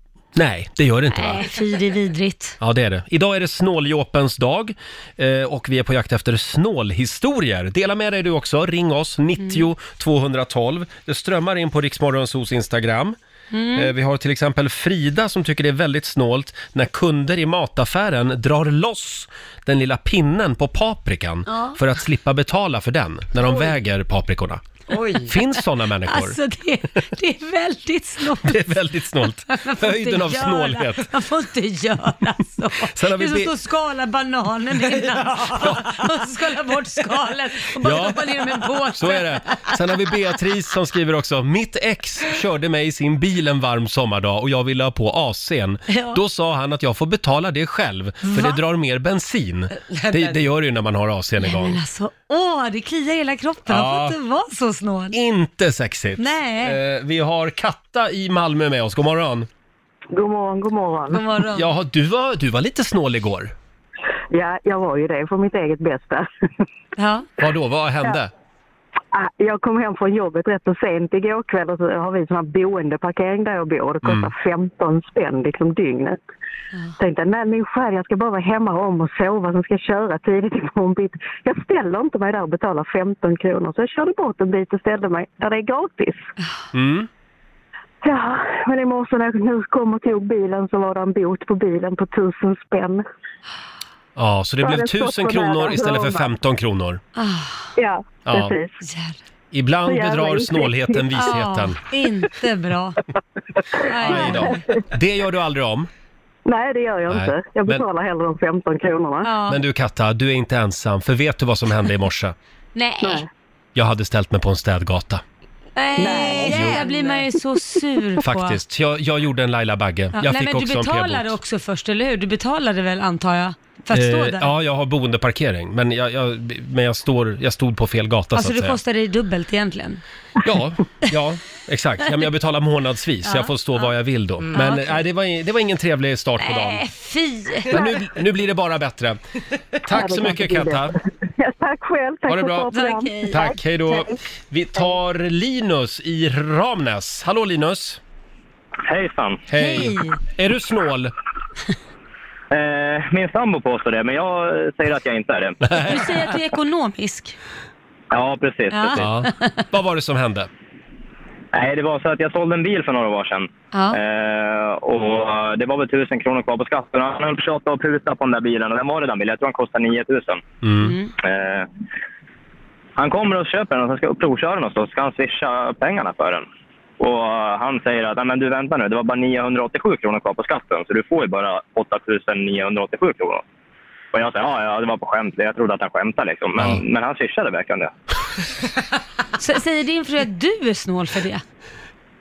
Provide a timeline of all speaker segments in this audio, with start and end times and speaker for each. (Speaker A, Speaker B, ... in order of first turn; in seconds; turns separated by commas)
Speaker A: 0.3-1.4, Speaker B: 1.1-2.6, Speaker A: 2.6-13.2, Speaker B: 9.4-9.7, Speaker B: 13.5-13.9, Speaker A: 13.7-24.6, Speaker B: 21.5-21.8, Speaker C: 24.9-25.3, Speaker A: 25.3-26.4, Speaker B: 26.1-40.1, Speaker A: 28.4-31.1, Speaker A: 32.9-33.5, Speaker C: 34.9-35.2, Speaker A: 35.6-35.8, Speaker A: 37.8-38.2, Speaker A: 39.0-51.8, Speaker B: 45.9-46.2, Speaker B: 48.2-48.6, Speaker C: 49.8-50.4, Speaker B: 51.4-55.1, Speaker A: 53.7-54.1, Speaker A: 55.1-59.5, Speaker B: 56.2-56.8, Speaker D: 60.1-61.2, Speaker B: 61.1-61.7, Speaker A: 61.5-63.5, Speaker D: 64.3-66.3, Speaker B: 67.0-67.3, Speaker A: 67.4-68.3, Speaker D: 69.1-76.2, Speaker A: 74.0-74.3, Speaker D: 77.0-86.3, Speaker A: 86.7-87.1, Speaker D: 88.0-93.0, Speaker A: 94.2-97.0, Speaker D: 94.6-96.3, Speaker B: 97.2-97.7, Speaker D: 97.8-98.8, Speaker A: 98.2-98.5, Speaker B: 98.8-99.2, Speaker A: 99.5-101.8, Speaker D: 99.8-101.2, Speaker B: 101.1-103.0, Speaker D: 103.7-104.8, Speaker B: 103.8-104.6, Speaker A: 104.0-105.9, Speaker D: 106.5-109.3, Speaker A: 107.1-107.8, Speaker B: 109.2-109.6, Speaker A: 109.5-112.3, Speaker B: 112.7-113.2, Speaker A: 113.7-115.2, Speaker B: 115.8-118.6, Speaker D: 116.0-116.8, Speaker A: 116.4-116.8, Speaker C: 116.7-117.2, Speaker A: 118.2-121.3, Speaker B: 120.1-124.5, Speaker A: 123.9-128.8, Speaker B: 128.3-130.0, Speaker A: 130.4-136.8, Speaker B: 133.2-133.8, Speaker C: 134.4-134.7, Speaker B: 134.5-135.0, Speaker B: 136.4-137.8, Speaker A: 137.7-139.2, Speaker D: 137.7-138.0, Speaker A: 139.8-140.9, Speaker D: 139.9-144.1, Speaker A: 142.3-142.7, Speaker B: 142.7-143.6, Speaker A: 143.3-148.0, Speaker E: 148.9-149.4, Speaker A: 149.5-151.1, Speaker B: 149.6-150.2, Speaker E: 152.5-155.5, Speaker A: 155.6-156.1, Speaker B: 155.8-157.3, Speaker E: 158.1-158.8, Speaker B: 158.7-159.6, Speaker A: 158.9-160.5, Speaker E: 161.5-163.4, Speaker B: 163.7-164.0, Speaker E: 164.0-170.4, Speaker A: 170.6-170.9, Speaker B: 170.8-171.1, Speaker E: 171.3-171.6, Speaker E: 173.0-176.4, Speaker E: 177.0-183.4, Speaker E: 184.1-187.8, Speaker B: 189.4-191.4